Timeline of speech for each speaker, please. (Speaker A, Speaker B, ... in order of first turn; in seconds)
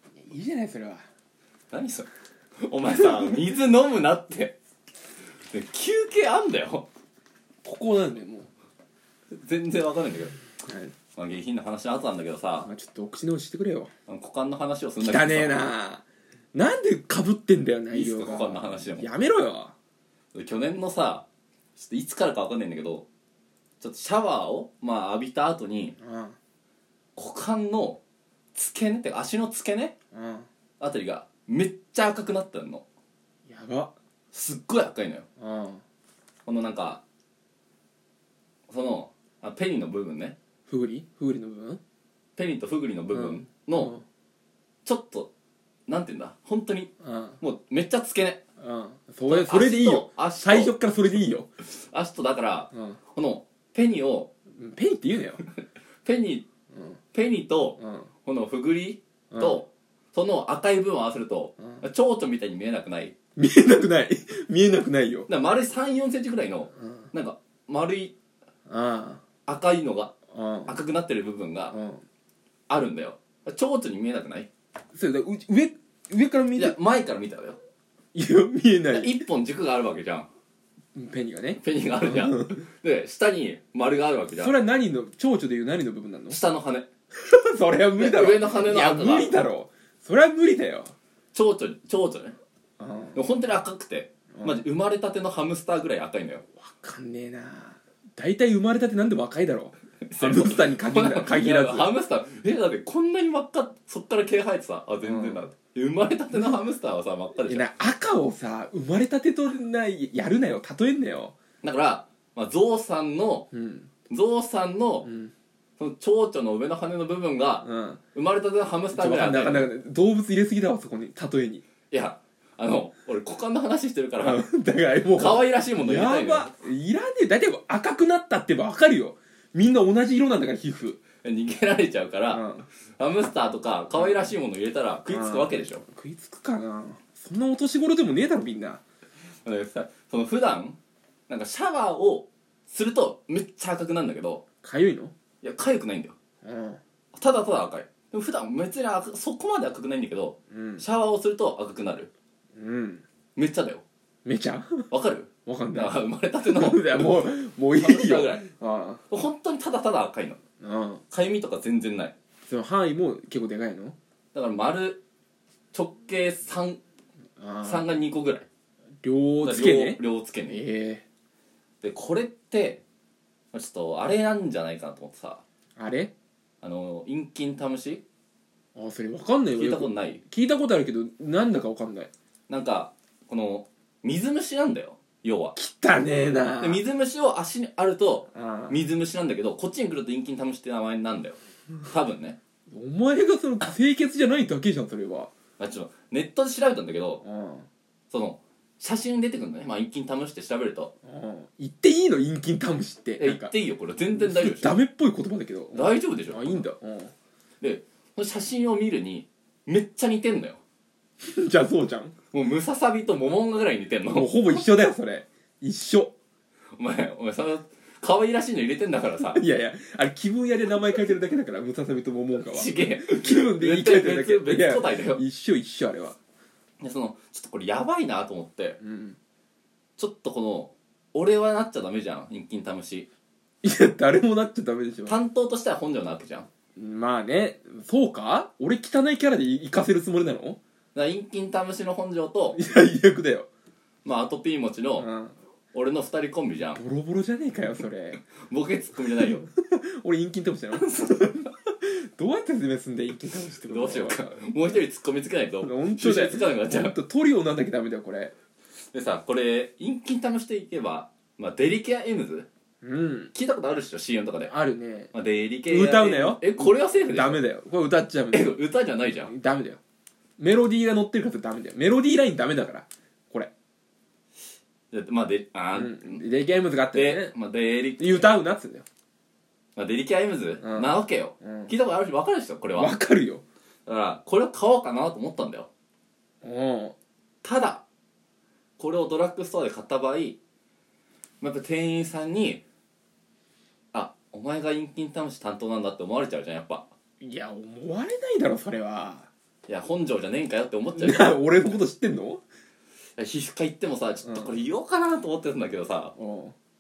Speaker A: 0.2-1.0, 2.9-3.3, 7.7-8.5, 10.6-10.9, 12.6-13.9, 15.0-16.0, 16.5-19.7, 26.0-26.4, 30.1-30.5, 33.5-33.9, 35.4-35.8, 40.7-41.8, 43.1-44.0, 47.0-47.4, 48.6-51.5, 52.7-53.0, 54.6-55.4, 57.8-58.1, 59.3-59.6, 63.4-65.3, 66.8-67.1, 68.7-69.2, 70.3-70.8, 71.7-72.0, 74.9-76.8, 78.1-79.2, 81.0-82.7, 84.3-86.4, 87.2-90.9, 92.8-93.3, 94.3-94.6, 96.6-101.9, 105.0-105.5, 107.5-111.3, 113.5-113.9, 115.0-115.3, 117.6-118.0, 119.0-121.6, 124.2-131.0, 132.3-132.7, 134.0-134.3, 135.1-138.8, 144.6-145.1, 146.4-146.8, 150.5-150.8, 152.6-153.0, 154.2-154.9, 155.5-159.0, 160.6-161.0, 162.5-164.0, 167.4-167.9, 169.0-171.0, 175.8-176.1, 178.8-182.1, 185.6-186.8, 188.3-188.8, 192.7-195.3, 197.2-197.7, 201.1-203.5, 204.1-207.1, 211.2-212.2, 214.1-216.1, 219.3-226.2, 228.8-229.2, 233.6-235.2, 236.8-240.6, 242.5-243.5, 245.0-245.3, 246.8-248.2, 249.2-254.3, 255.6-258.3, 262.8-263.3, 264.5-265.1, 265.7-268.6, 269.2-269.8, 270.4-273.5, 275.7-277.3, 278.0-278.9, 280.6-281.7, 282.8-283.4, 286.4-286.9, 297.2-299.3, 300.9-302.4, 304.2-304.5, 306.2-306.5
Speaker B: 1.7-2.1, 2.6-4.6, 5.5-6.9, 9.3-10.4, 11.2-12.7, 14.1-15.7, 17.9-19.1, 20.3-23.1, 23.8-25.9, 27.2-28.0, 28.5-29.9, 30.8-32.9, 34.3-35.3, 36.5-37.0, 38.7-40.4, 42.4-43.9, 44.9-45.3, 45.9-46.9, 47.4-48.4, 49.3-54.3, 56.0-56.5, 57.1-63.1, 65.3-68.2, 69.5-70.1, 70.7-71.8, 72.7-74.5, 76.6-77.6, 78.9-80.3, 81.6-84.6, 86.3-86.9, 88.0-89.4, 91.3-92.4, 93.2-96.4, 100.1-107.7, 111.6-113.5, 114.1-115.1, 115.8-119.7, 121.9-124.5, 125.2-126.5, 131.2-132.4, 133.0-135.8, 139.4-140.8, 141.3-144.4, 145.4-146.2, 147.1-152.1, 153.4-153.8, 154.9-158.5, 159.1-160.4, 161.1-162.1, 164.3-165.0, 165.7-166.8, 167.6-168.5, 169.4-170.6, 171.8-172.8, 173.5-175.4, 176.6-178.0, 179.5-180.2, 182.5-185.6, 186.6-192.4, 195.6-197.2, 198.1-200.9, 203.2-204.8, 205.7-206.6, 207.6-210.6, 212.3-214.6, 216.8-219.4, 222.4-225.2, 226.8-228.8, 230.0-233.1, 235.1-236.5, 240.9-242.6, 244.1-245.1, 245.7-246.8, 248.5-249.4, 250.8-251.2, 253.6-256.9, 258.9-262.5, 263.3-264.5, 265.1-267.4, 268.3-269.3, 274.9-276.2, 276.9-278.4, 279.8-283.0, 283.9-285.7, 287.4-287.8, 288.8-290.4, 291.4-292.6, 293.9-296.9, 299.7-301.4, 303.2-306.1